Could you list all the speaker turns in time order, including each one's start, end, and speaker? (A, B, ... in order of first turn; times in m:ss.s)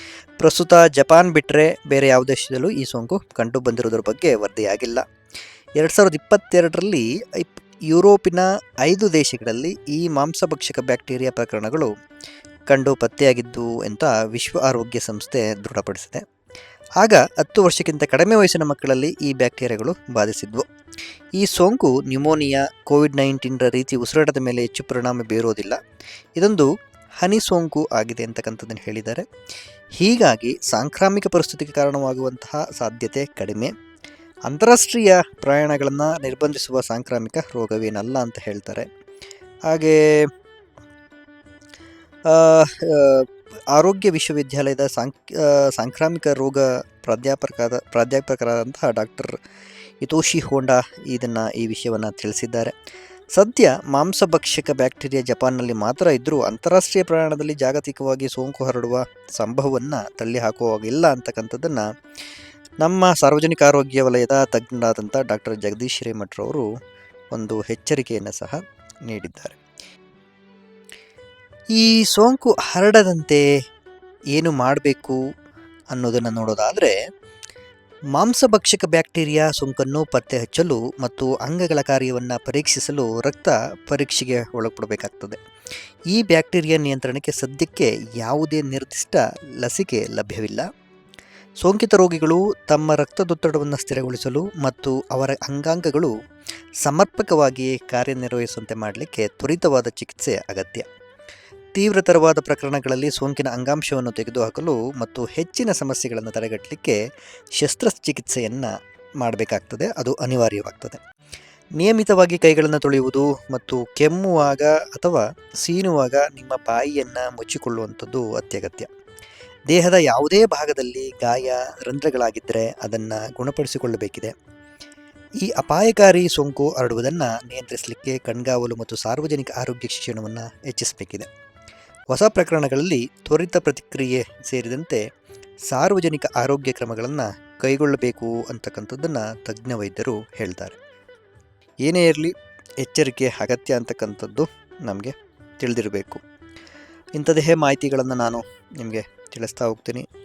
0:00.4-0:05.0 A
0:05.8-0:11.9 A
0:12.7-0:16.2 A
0:17.0-0:20.6 A
0:21.4-0:25.8 A
0:26.4-0:26.7 A
0:27.2-0:29.3 A
0:30.0-0:33.7 A
0:34.5-0:38.9 A
0:39.7-0:40.0 A
0:42.3-0:49.3 A
0:50.0-0:52.7 A
0:53.4-1:01.8 A
1:02.8-1:06.6 A
1:07.3-1:09.6 A
1:11.7-1:13.4 A
1:14.3-1:15.2 A
1:15.9-1:16.9 A
1:18.1-1:25.4 A
1:26.1-1:30.6 A
1:31.6-1:36.1 A
1:36.8-1:40.9 A
1:41.7-1:47.0 A
1:47.6-1:51.0 A
1:51.8-1:58.9 A
1:59.7-2:04.3 A
2:05.4-2:11.3 A
2:12.1-2:15.0 A
2:15.7-2:20.8 A
2:21.8-2:26.2 A
2:27.2-2:30.0 A